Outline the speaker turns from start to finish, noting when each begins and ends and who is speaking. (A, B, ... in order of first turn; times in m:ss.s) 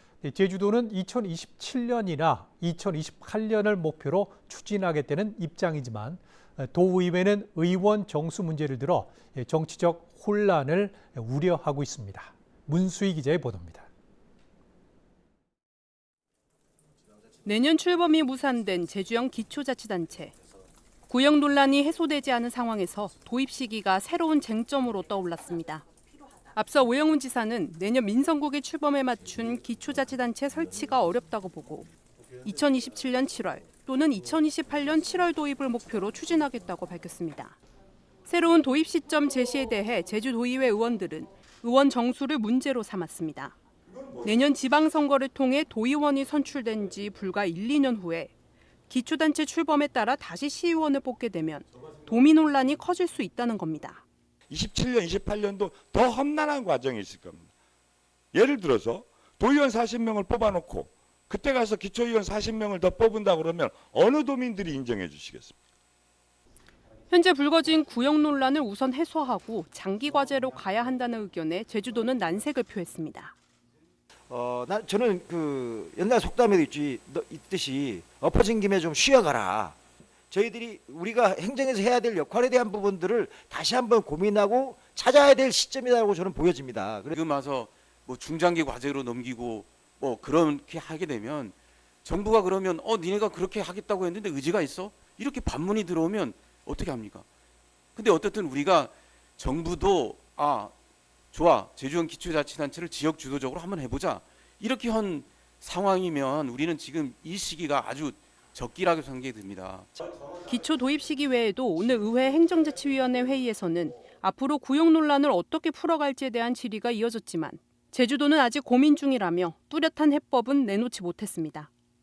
0:00.2-0:13.9 A
0:17.4-0:20.3 B
0:21.1-0:25.9 B
0:26.6-0:37.6 B
0:38.3-0:43.6 B
0:43.9-0:44.4 C
0:44.2-0:48.3 B
0:48.9-0:54.0 B
0:54.5-0:57.5 C
0:58.3-1:05.6 C
1:07.1-1:13.4 B
1:14.3-1:19.8 D
1:20.3-1:27.2 D
1:27.2-1:37.2 E
1:38.0-1:40.7 E
1:41.3-1:49.9 E
1:50.3-2:01.7 B